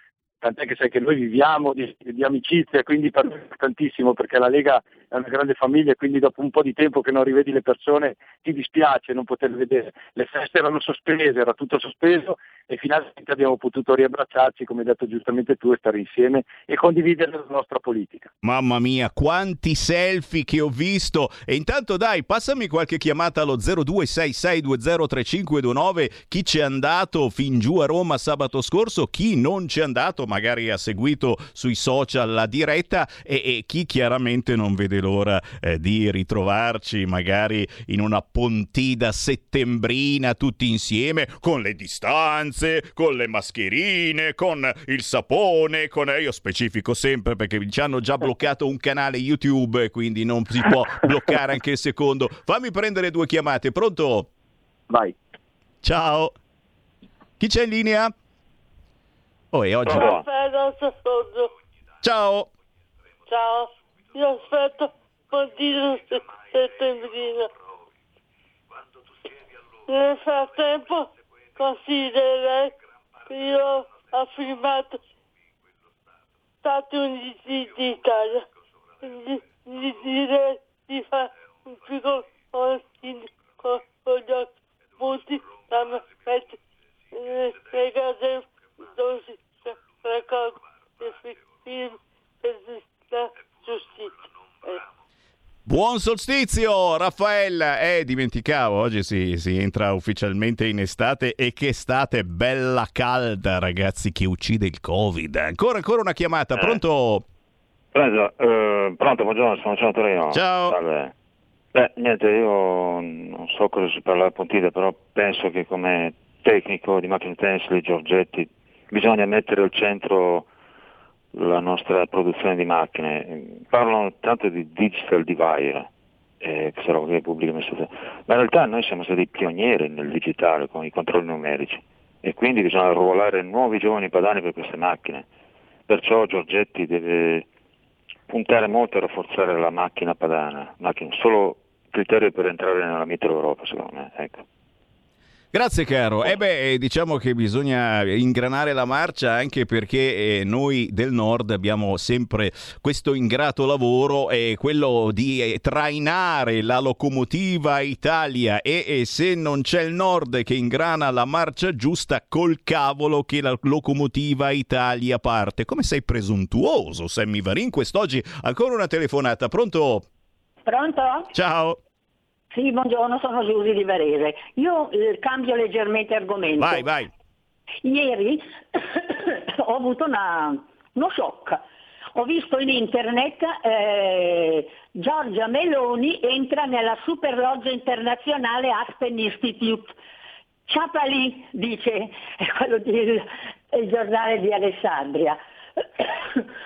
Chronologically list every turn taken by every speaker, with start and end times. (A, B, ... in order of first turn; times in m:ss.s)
0:00.4-0:18.3 A
0:18.4-0:54.3 B
0:54.9-0:55.1 A
0:55.8-0:56.3 B
0:57.4-0:58.1 B
0:59.5-1:00.1 B
0:59.8-1:00.2 C
0:59.9-1:01.5 D
1:02.0-1:02.5 B
1:03.3-1:07.5 D
1:09.9-1:15.0 D
1:16.6-1:18.5 D
1:19.0-1:26.6 D
1:27.1-1:34.8 D
1:35.6-1:47.2 B
1:47.9-1:51.1 C
1:50.3-1:50.8 B
1:51.7-2:00.5 C
2:01.3-2:05.9 C
2:06.4-2:15.3 C
2:15.9-2:17.4 C
2:18.3-2:24.4 C
2:25.5-2:50.0 B
2:50.6-2:51.3 E
2:51.3-2:51.8 B
2:52.5-2:56.9 E
2:56.6-2:57.1 B
2:57.8-3:01.6 E
3:02.2-3:09.9 E
3:10.7-3:15.4 E
3:16.0-3:16.4 E